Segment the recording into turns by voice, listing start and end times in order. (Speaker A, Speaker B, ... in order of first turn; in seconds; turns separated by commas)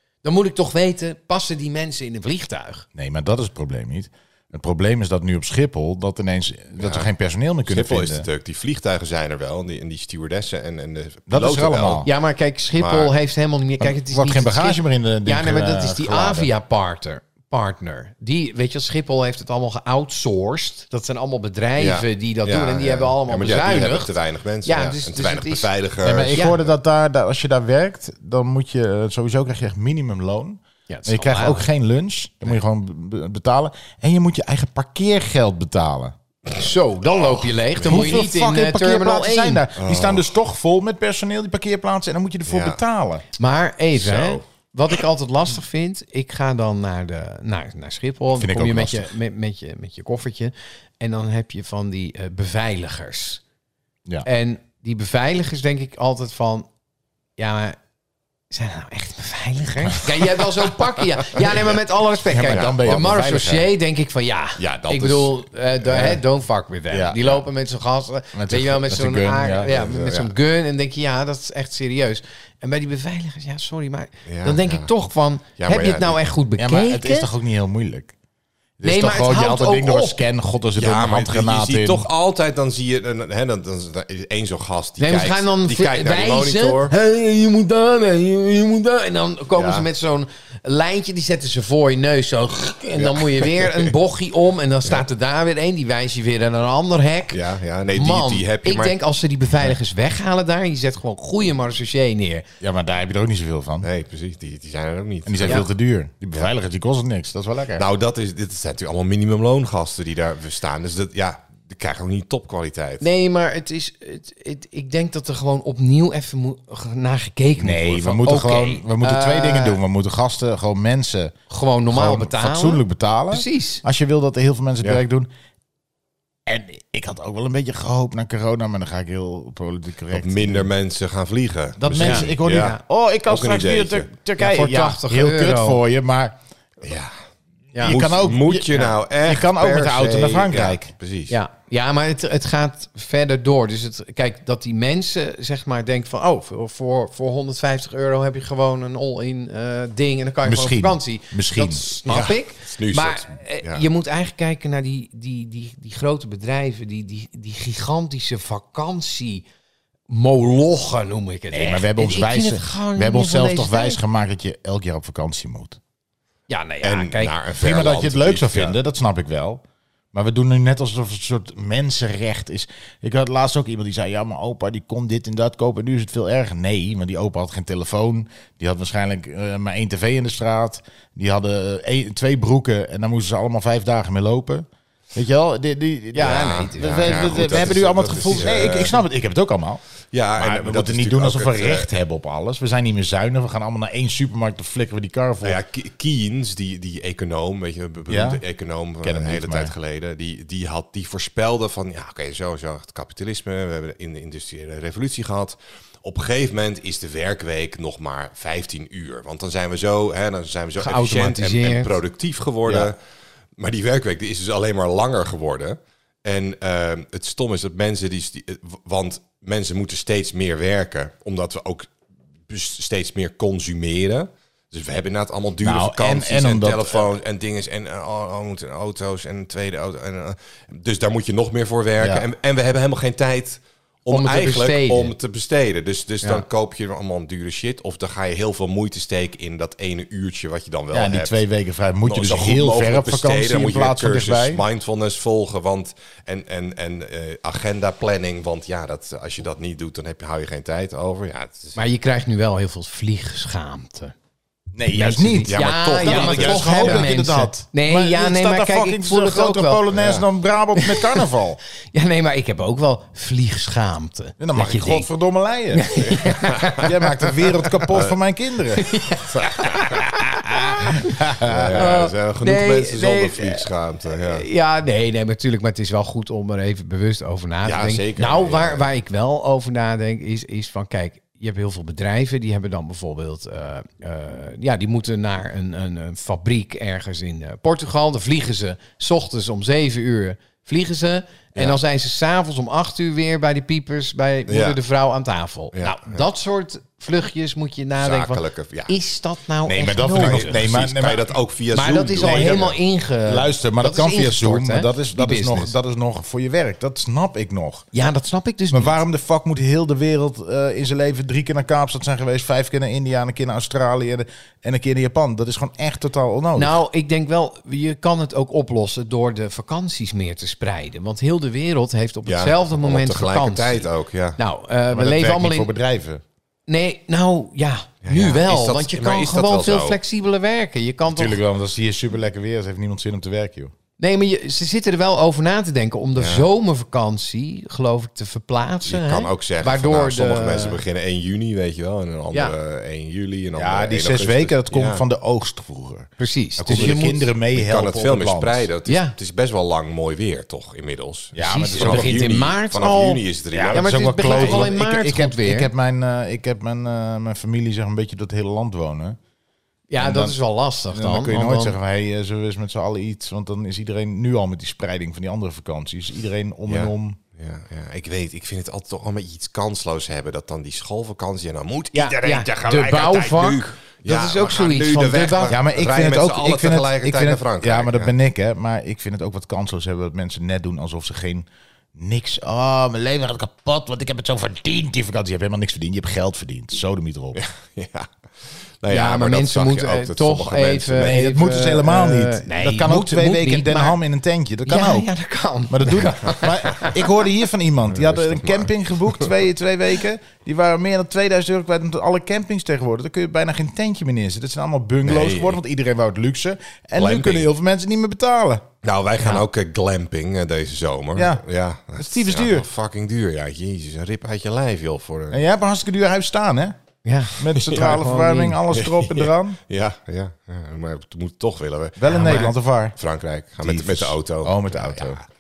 Speaker A: 0.2-2.9, Speaker B: 3.0-8.3, Speaker C: 6.8-7.1, Speaker C: 7.7-12.1, Speaker B: 11.3-12.1, Speaker A: 12.0-25.7, Speaker C: 12.8-13.1, Speaker B: 13.8-16.5, Speaker C: 21.8-26.5, Speaker B: 26.0-36.1, Speaker A: 26.3-26.6, Speaker A: 30.9-31.6, Speaker A: 36.5-39.6, Speaker C: 37.8-38.2, Speaker B: 37.8-43.2, Speaker C: 39.8-40.3, Speaker C: 42.5-42.8, Speaker A: 43.4-53.4, Speaker C: 44.0-44.4, Speaker B: 48.4-49.1, Speaker A: 54.2-56.7, Speaker A: 57.4-57.8, Speaker A: 58.5-77.3, Speaker B: 62.2-63.7, Speaker C: 62.5-63.1, Speaker C: 64.6-65.4, Speaker B: 66.9-67.4, Speaker B: 68.3-69.7, Speaker C: 69.6-70.3, Speaker C: 74.3-74.9, Speaker C: 75.6-76.2, Speaker B: 76.6-78.2, Speaker B: 78.8-82.1, Speaker A: 78.8-80.2, Speaker C: 80.8-86.9, Speaker A: 85.0-97.4, Speaker C: 89.6-89.9, Speaker C: 93.0-93.9, Speaker C: 97.3-99.0, Speaker A: 97.9-102.5, Speaker B: 102.6-103.9, Speaker C: 103.8-105.7, Speaker B: 105.2-107.9, Speaker C: 107.8-113.1, Speaker A: 113.0-119.8, Speaker B: 117.6-121.3, Speaker A: 121.5-123.8, Speaker B: 121.9-125.3, Speaker B: 126.5-130.7, Speaker C: 130.1-134.1, Speaker B: 131.8-136.4, Speaker A: 132.0-132.8, Speaker A: 134.4-135.8, Speaker C: 136.8-137.2, Speaker A: 137.7-138.0, Speaker B: 137.8-140.9, Speaker C: 137.8-141.4, Speaker A: 141.3-159.5, Speaker B: 150.4-151.8, Speaker C: 152.1-153.9, Speaker A: 160.1-164.0, Speaker B: 161.5-165.8, Speaker A: 166.5-167.4, Speaker C: 166.8-168.8, Speaker B: 167.6-189.8, Speaker A: 186.1-188.7, Speaker C: 186.2-189.0, Speaker C: 190.1-191.9, Speaker B: 190.4-195.6, Speaker C: 195.4-213.0, Speaker B: 198.1-198.4, Speaker B: 199.0-199.7, Speaker A: 210.8-212.0, Speaker B: 212.7-212.9, Speaker C: 213.6-221.9, Speaker C: 222.5-241.4, Speaker B: 225.6-227.1, Speaker B: 232.0-232.3, Speaker A: 234.1-235.1, Speaker B: 240.9-244.6, Speaker C: 242.0-251.8, Speaker A: 251.8-254.2, Speaker B: 254.7-261.6, Speaker A: 254.9-259.9, Speaker C: 255.5-257.1, Speaker C: 259.9-260.2, Speaker A: 260.8-261.3, Speaker A: 261.9-265.1, Speaker B: 264.4-265.9, Speaker A: 265.7-267.8, Speaker C: 266.0-266.9, Speaker B: 266.8-268.9, Speaker C: 267.9-268.2, Speaker A: 268.8-273.7, Speaker C: 269.3-270.2, Speaker B: 270.8-271.9, Speaker C: 271.4-274.4, Speaker A: 274.2-300.7, Speaker C: 277.6-278.9, Speaker C: 294.5-294.8, Speaker C: 295.7-296.2, Speaker C: 298.0-298.9, Speaker B: 299.7-301.3, Speaker C: 300.1-302.7, Speaker A: 301.7-305.8, Speaker B: 302.2-307.9, Speaker A: 307.9-309.0, Speaker B: 308.7-316.8, Speaker A: 316.6-325.7, Speaker C: 322.3-324.4, Speaker B: 324.9-326.2, Speaker A: 326.7-331.4, Speaker C: 328.0-330.0, Speaker B: 331.1-333.7, Speaker A: 334.0-340.8, Speaker C: 336.2-336.5, Speaker C: 338.9-345.1, Speaker B: 343.6-346.1, Speaker A: 346.2-347.3, Speaker C: 346.6-354.7, Speaker B: 346.7-348.7, Speaker A: 348.9-349.1, Speaker B: 351.4-352.1, Speaker A: 351.4-355.7, Speaker B: 353.5-359.2, Speaker A: 359.9-361.8, Speaker B: 360.0-360.4, Speaker B: 360.9-367.2, Speaker C: 366.7-378.1, Speaker A: 371.9-375.6, Speaker B: 375.5-387.4, Speaker C: 387.4-391.2, Speaker A: 388.9-394.0, Speaker B: 391.0-395.1, Speaker A: 394.7-397.0, Speaker B: 395.7-408.7, Speaker C: 397.9-398.7, Speaker C: 405.0-405.6, Speaker C: 407.0-407.5, Speaker C: 408.8-415.4, Speaker B: 411.1-411.4, Speaker B: 412.0-412.7, Speaker B: 415.3-416.8, Speaker A: 417.1-418.6, Speaker B: 417.4-419.6, Speaker C: 417.6-417.9, Speaker C: 418.7-425.2, Speaker B: 422.0-423.0, Speaker A: 422.1-422.5, Speaker B: 423.6-425.2